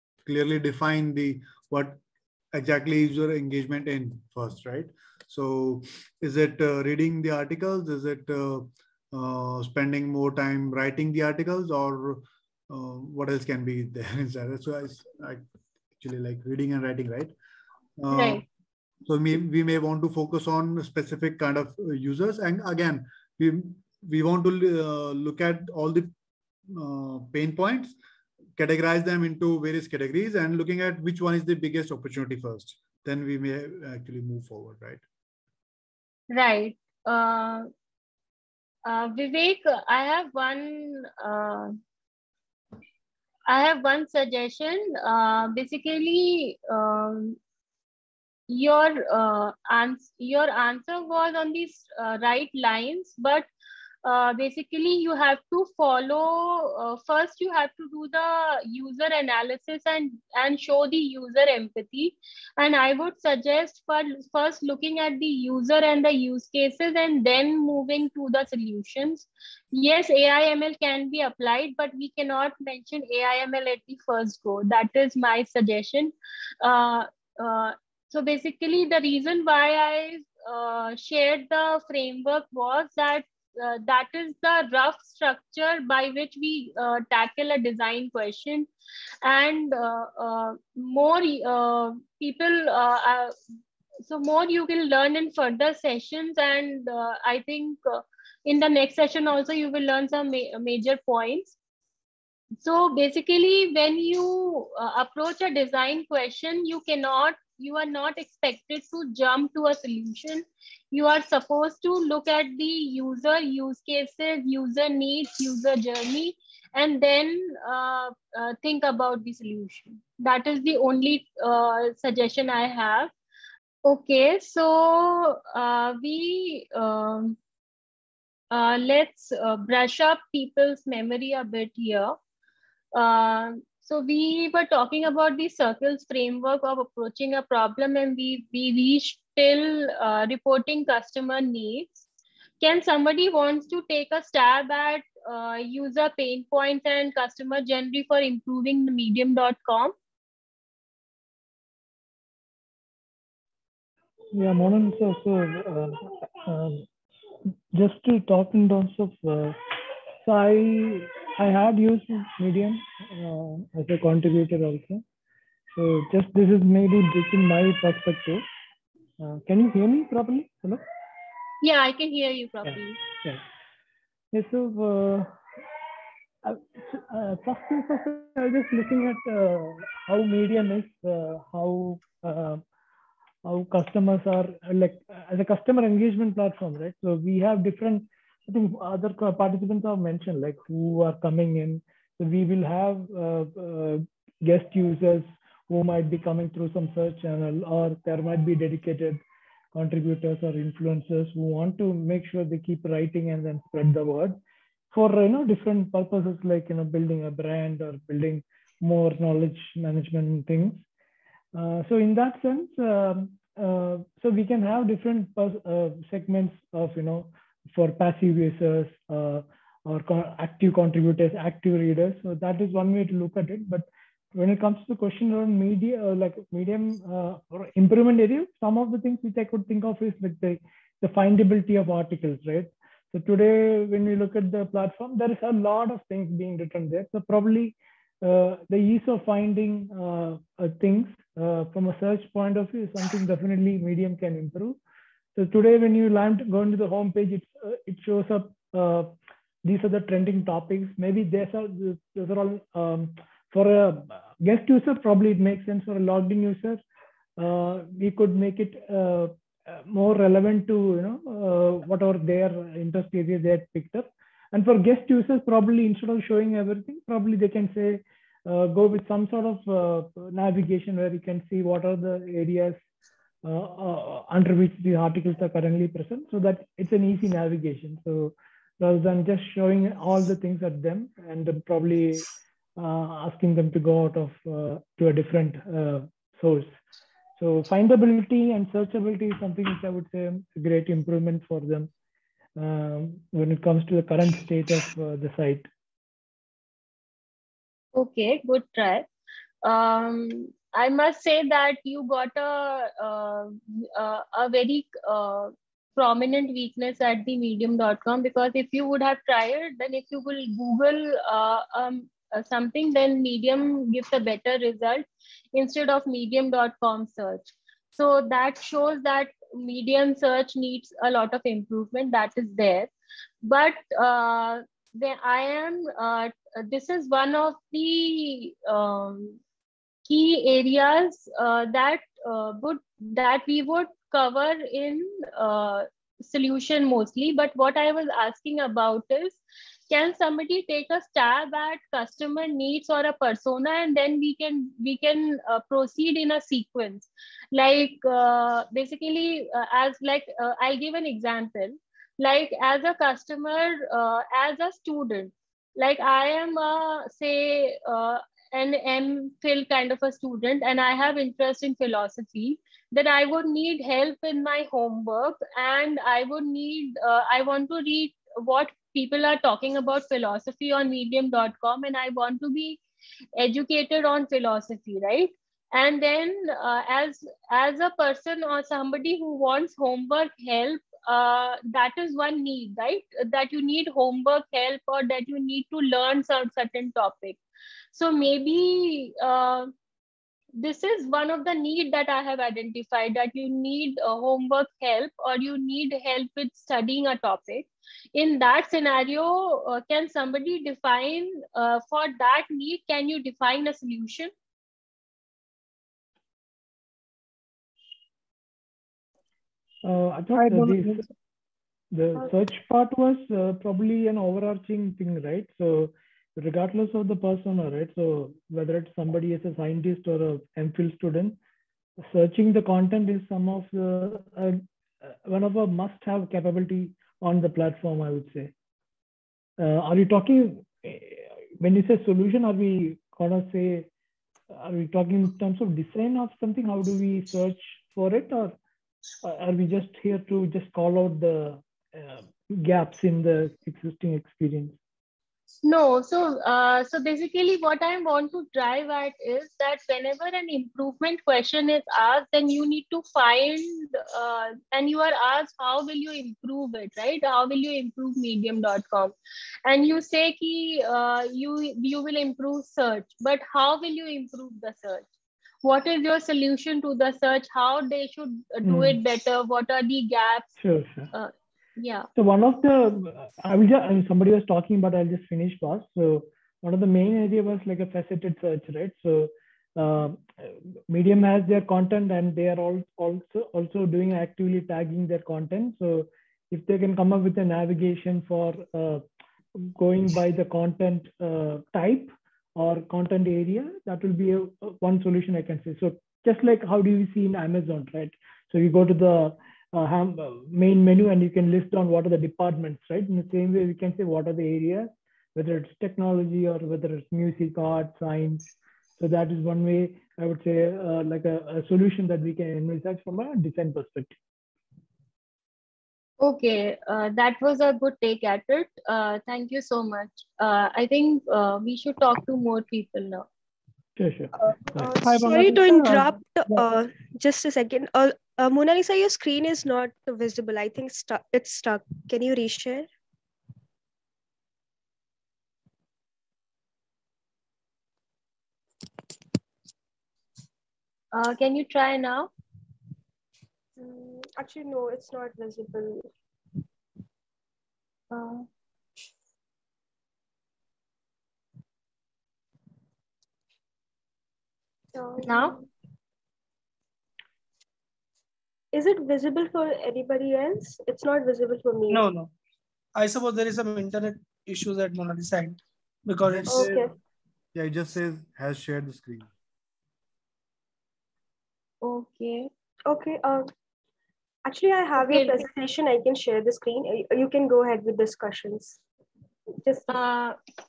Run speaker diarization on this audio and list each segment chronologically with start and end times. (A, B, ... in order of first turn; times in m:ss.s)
0:00.2-0:02.0 A
0:02.5-0:15.4 A
0:16.0-0:17.3 A
0:18.0-0:18.4 A
0:18.1-0:18.4 B
0:19.0-0:26.1 A
0:26.7-0:27.9 A
0:28.6-0:35.0 A
0:36.3-0:37.7 B
0:38.8-0:41.7 B
0:43.5-0:47.4 B
0:48.5-0:53.5 B
0:54.0-1:28.7 B
1:29.2-1:33.3 B
1:34.0-1:41.5 B
1:42.6-2:03.1 B
2:03.8-2:07.4 B
2:08.5-2:12.2 B
2:12.9-2:22.0 B
2:22.6-2:29.9 B
2:34.3-2:36.8 C
2:37.7-2:45.0 C
2:45.7-2:48.4 C
2:49.2-2:50.8 C
2:51.6-2:53.0 B
2:52.6-2:53.4 C
2:54.3-2:55.3 C
2:56.4-3:02.6 C
3:03.4-3:19.2 C
3:19.7-3:24.4 C
3:24.9-3:30.8 C
3:31.5-4:04.8 C
4:05.3-4:16.8 C
4:17.4-4:32.8 C
4:33.4-4:46.7 C
4:47.4-4:51.9 C
4:52.6-4:55.7 C
4:57.9-4:59.1 B
4:59.6-5:22.9 B
5:23.4-5:29.4 B
5:30.1-6:12.8 B
6:13.4-6:27.4 B
6:27.9-6:29.7 B
6:30.6-6:44.3 B
6:49.8-6:51.0 C
6:50.3-6:51.0 D
6:51.9-7:01.4 C
7:02.1-7:08.5 C
7:09.6-7:13.9 C
7:14.5-7:18.6 C
7:19.2-7:24.8 C
7:25.6-7:45.1 B
7:45.6-7:50.5 B
7:48.6-7:49.0 C
7:50.6-7:51.1 C
7:51.1-7:52.1 B
7:52.2-8:09.0 C
8:09.6-8:28.4 C
8:29.0-8:34.1 C
8:36.2-8:43.2 B
8:44.0-8:44.9 C
8:44.4-8:52.9 E
8:45.0-8:46.7 D
9:01.1-9:02.3 B
9:03.8-9:06.1 E
9:08.1-9:08.4 E
9:14.9-9:15.6 E
9:15.2-9:15.6 B
9:18.7-9:22.0 E
9:21.9-9:22.3 D
9:22.9-9:26.7 D
9:26.3-9:26.9 A
9:26.5-9:26.9 E
9:27.5-9:29.3 A
9:31.8-9:32.5 B
9:32.8-9:33.5 E
9:34.4-9:38.8 E
9:35.0-9:35.4 B
9:39.6-9:39.9 E
9:39.9-9:40.4 B